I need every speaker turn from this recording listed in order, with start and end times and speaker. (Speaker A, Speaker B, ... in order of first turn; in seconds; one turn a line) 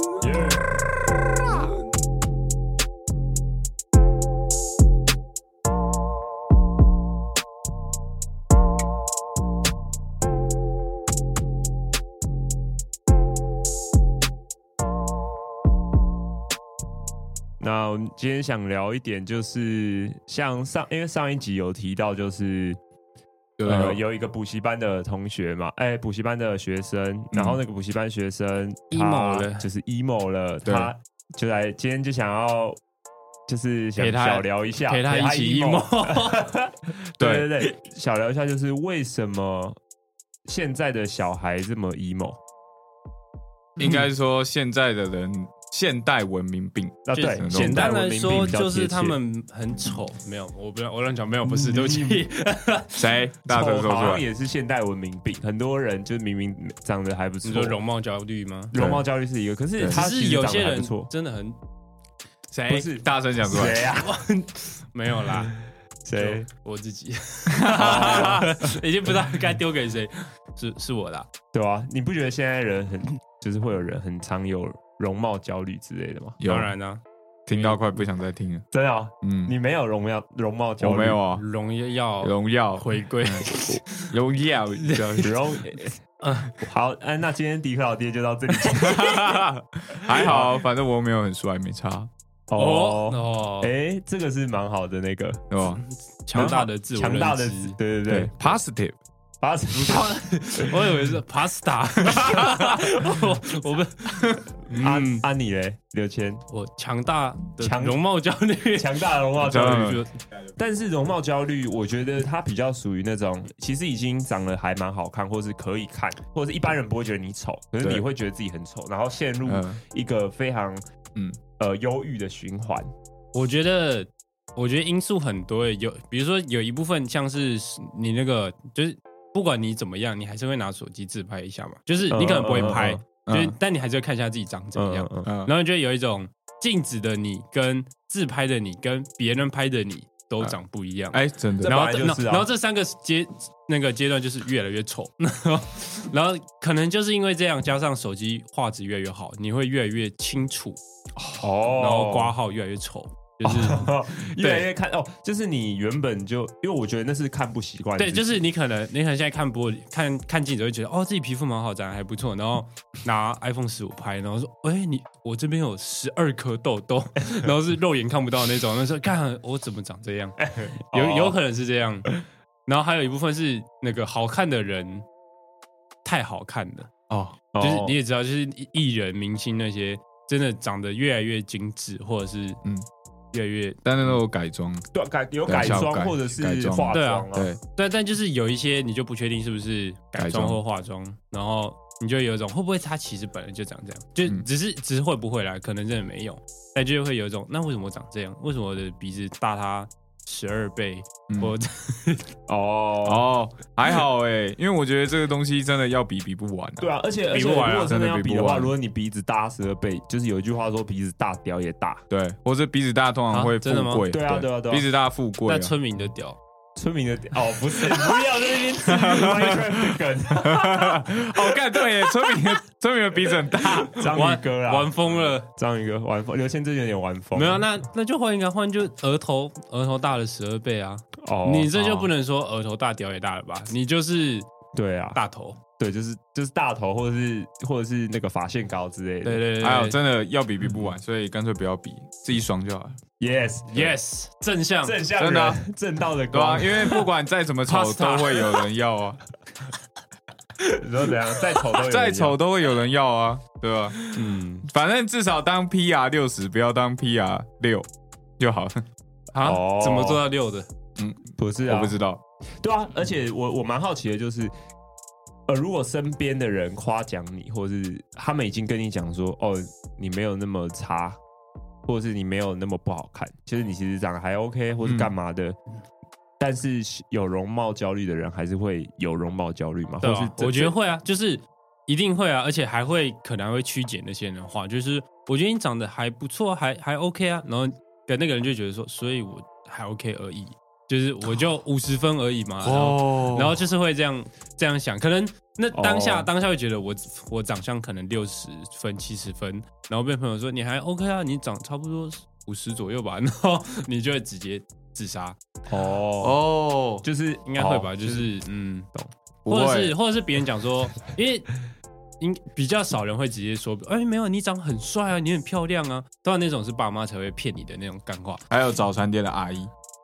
Speaker A: 0.2-0.7
Speaker A: 17.6-22.8
Speaker B: 23.6-24.0
Speaker A: 23.6-32.8
Speaker B: 27.3-27.6
Speaker C: 28.9-29.7
Speaker B: 30.6-30.9
Speaker A: 33.5-39.8
Speaker C: 34.0-36.5
Speaker B: 37.2-37.6
Speaker A: 40.5-42.4
Speaker B: 43.8-47.9
Speaker A: 47.0-49.2
Speaker C: 47.1-53.2
Speaker A: 51.5-52.2
Speaker B: 53.0-54.2
Speaker A: 53.5-57.8
Speaker C: 57.4-58.7
Speaker A: 58.7-61.1
Speaker B: 58.7-59.0
Speaker C: 59.9-61.6
Speaker C: 62.5-62.9
Speaker B: 62.6-63.8
Speaker A: 62.7-64.2
Speaker C: 63.6-65.5
Speaker A: 66.0-66.5
Speaker C: 66.1-71.3
Speaker B: 67.5-68.5
Speaker A: 67.7-68.6
Speaker A: 71.5-76.4
Speaker B: 76.4-76.7
Speaker C: 76.4-77.0
Speaker B: 77.5-78.6
Speaker C: 77.5-77.8
Speaker A: 78.7-81.2
Speaker B: 79.2-79.5
Speaker B: 80.8-81.4
Speaker C: 81.3-84.2
Speaker B: 82.2-85.3
Speaker C: 84.8-85.3
Speaker A: 85.2-85.9
Speaker C: 86.2-86.5
Speaker A: 86.5-89.4
Speaker B: 88.8-92.1
Speaker A: 90.1-90.6
Speaker A: 92.5-95.4
Speaker C: 92.5-93.7
Speaker B: 95.5-95.8
Speaker C: 96.2-97.8
Speaker A: 96.3-98.3
Speaker B: 98.1-99.0
Speaker A: 99.4-100.1
Speaker C: 99.7-105.2
Speaker B: 102.1-102.7
Speaker A: 104.8-106.4
Speaker C: 106.5-110.1
Speaker A: 107.6-108.0
Speaker A: 108.7-110.0
Speaker B: 109.4-110.0
Speaker A: 110.6-120.8
Speaker B: 119.4-119.8
Speaker A: 121.6-122.9
Speaker C: 123.3-150.8
Speaker A: 132.1-133.0
Speaker B: 133.2-133.6
Speaker A: 134.7-135.3
Speaker B: 135.2-135.5
Speaker B: 141.1-141.7
Speaker A: 141.6-142.5
Speaker A: 151.4-152.3
Speaker C: 151.8-154.7
Speaker A: 153.4-158.4
Speaker C: 158.0-170.3
Speaker A: 170.4-171.4
Speaker C: 170.9-172.1
Speaker C: 172.7-175.1
Speaker C: 176.0-176.9
Speaker B: 177.1-177.4
Speaker A: 177.5-177.9
Speaker C: 177.6-182.6
Speaker C: 183.3-183.8
Speaker B: 183.8-184.9
Speaker A: 184.9-187.5
Speaker B: 185.5-187.6
Speaker C: 186.9-202.3
Speaker B: 190.2-190.6
Speaker A: 202.5-203.2
Speaker B: 203.0-206.9
Speaker A: 206.8-212.0
Speaker C: 207.3-207.9
Speaker B: 207.8-208.7
Speaker B: 212.1-215.7
Speaker C: 213.3-214.1
Speaker A: 214.1-214.8
Speaker C: 215.4-216.4
Speaker A: 216.8-221.5
Speaker B: 218.8-224.1
Speaker A: 223.8-227.6
Speaker C: 223.9-225.4
Speaker C: 227.3-234.5
Speaker A: 231.2-232.0
Speaker A: 234.7-235.2
Speaker C: 235.1-235.6
Speaker A: 235.8-239.4
Speaker C: 239.2-240.0
Speaker B: 239.6-243.0
Speaker A: 243.2-244.0
Speaker C: 243.7-245.0
Speaker A: 244.8-247.0
Speaker B: 245.2-245.6
Speaker B: 246.3-249.2
Speaker C: 247.7-248.7
Speaker A: 250.7-252.4
Speaker B: 251.7-254.0
Speaker A: 254.1-254.7
Speaker B: 254.7-257.9
Speaker B: 258.4-258.8
Speaker C: 259.3-260.7
Speaker A: 259.4-260.2
Speaker B: 261.0-262.2
Speaker A: 261.4-262.0
Speaker A: 262.6-264.5
Speaker A: 265.5-271.2
Speaker A: 271.9-275.6
Speaker B: 274.8-275.1
Speaker A: 276.4-280.7
Speaker C: 280.0-305.4
Speaker B: 292.6-293.6
Speaker A: 295.7-296.3
Speaker A: 305.7-306.4
Speaker B: 306.2-307.0
Speaker A: 307.0-308.3
Speaker C: 307.4-308.9
Speaker B: 309.4-310.0
Speaker C: 309.5-311.6
Speaker C: 312.2-318.4
Speaker B: 318.5-319.7